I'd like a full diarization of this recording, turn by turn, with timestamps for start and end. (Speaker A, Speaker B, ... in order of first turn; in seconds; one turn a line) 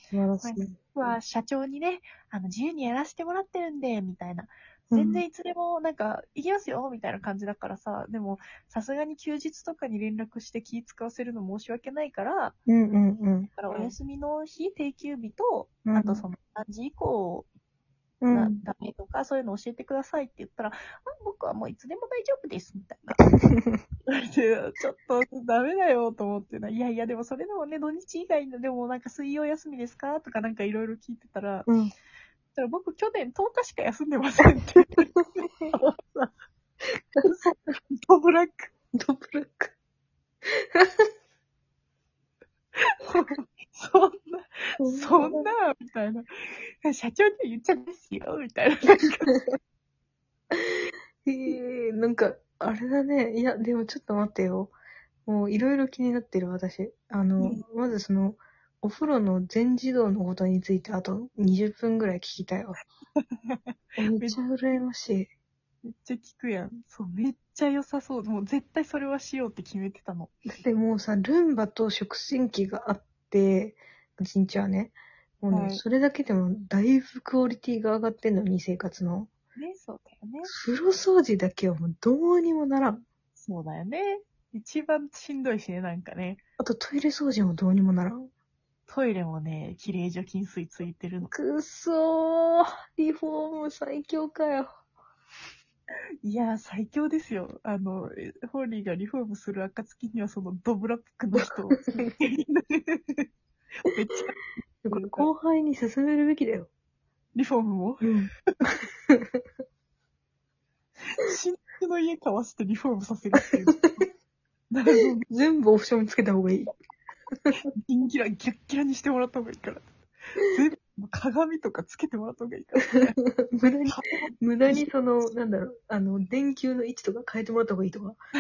Speaker A: 0.1-0.8
Speaker B: 0.4-12.6
Speaker A: 4.9-5.2
Speaker A: 12.7-13.9
Speaker B: 13.6-17.5
Speaker A: 15.9-16.2
Speaker A: 18.2-18.6
Speaker B: 18.3-23.2
Speaker A: 23.3-23.8
Speaker B: 24.1-31.7
Speaker B: 32.5-36.4
Speaker B: 37.2-38.7
Speaker A: 38.9-39.8
Speaker A: 40.5-41.0
Speaker B: 42.8-46.3
Speaker A: 44.8-45.5
Speaker B: 46.8-49.4
Speaker A: 50.5-54.8
Speaker A: 55.3-62.8
Speaker B: 63.2-64.4
Speaker A: 64.0-65.3
Speaker B: 65.8-70.3
Speaker A: 70.5-79.3
Speaker B: 75.5-75.8
Speaker B: 79.6-80.5
Speaker A: 80.5-83.0
Speaker B: 83.4-86.4
Speaker A: 86.6-88.3
Speaker B: 88.9-91.3
Speaker A: 91.3-94.7
Speaker B: 96.2-103.3
Speaker B: 103.8-105.3
Speaker A: 104.8-106.7
Speaker B: 107.3-108.1
Speaker A: 108.0-109.4
Speaker B: 111.1-114.1
Speaker B: 114.7-115.3
Speaker A: 115.2-116.7
Speaker B: 117.8-123.2
Speaker A: 123.6-128.2
Speaker B: 123.9-124.8